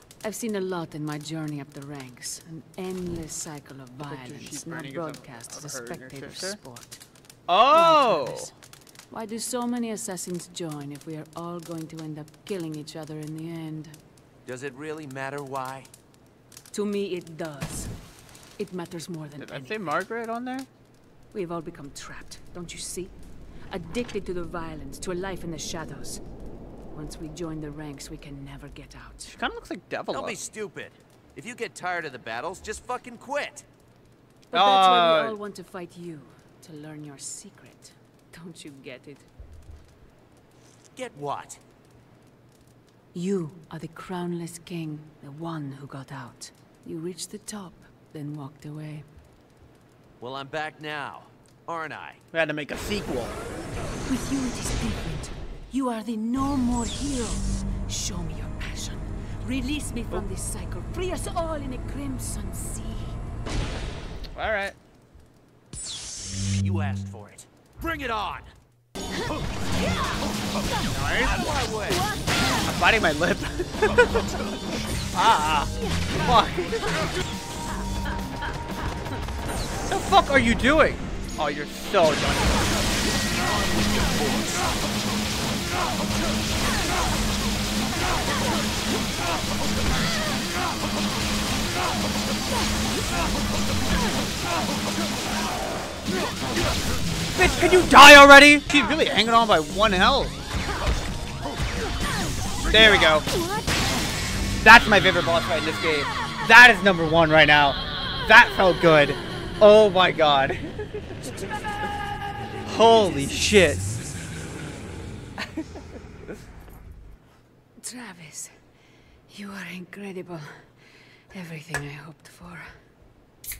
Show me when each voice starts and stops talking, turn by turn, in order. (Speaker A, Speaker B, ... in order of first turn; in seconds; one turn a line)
Speaker A: 0.2-7.0
Speaker B: 4.0-6.6
Speaker B: 7.5-8.5
Speaker A: 7.7-8.5
Speaker A: 9.1-13.9
Speaker C: 14.4-15.9
Speaker A: 16.7-17.9
Speaker A: 18.6-19.9
Speaker B: 19.4-20.7
Speaker A: 21.3-23.1
Speaker A: 23.7-26.2
Speaker A: 26.9-29.4
Speaker B: 29.3-30.4
Speaker C: 30.1-33.6
Speaker A: 34.5-39.3
Speaker B: 34.5-35.4
Speaker C: 40.9-41.6
Speaker A: 43.1-49.0
Speaker C: 50.2-52.2
Speaker B: 52.3-53.4
Speaker A: 54.0-63.2
Speaker B: 64.3-64.8
Speaker C: 66.6-68.5
Speaker B: 70.9-71.3
Speaker C: 71.2-72.0
Speaker B: 72.7-74.4
Speaker B: 75.1-77.1
Speaker B: 79.9-82.8
Speaker B: 97.3-100.4
Speaker B: 102.7-103.2
Speaker B: 104.6-111.2
Speaker B: 112.6-113.8
Speaker A: 117.8-118.5
Speaker A: 119.3-120.7
Speaker A: 121.3-122.7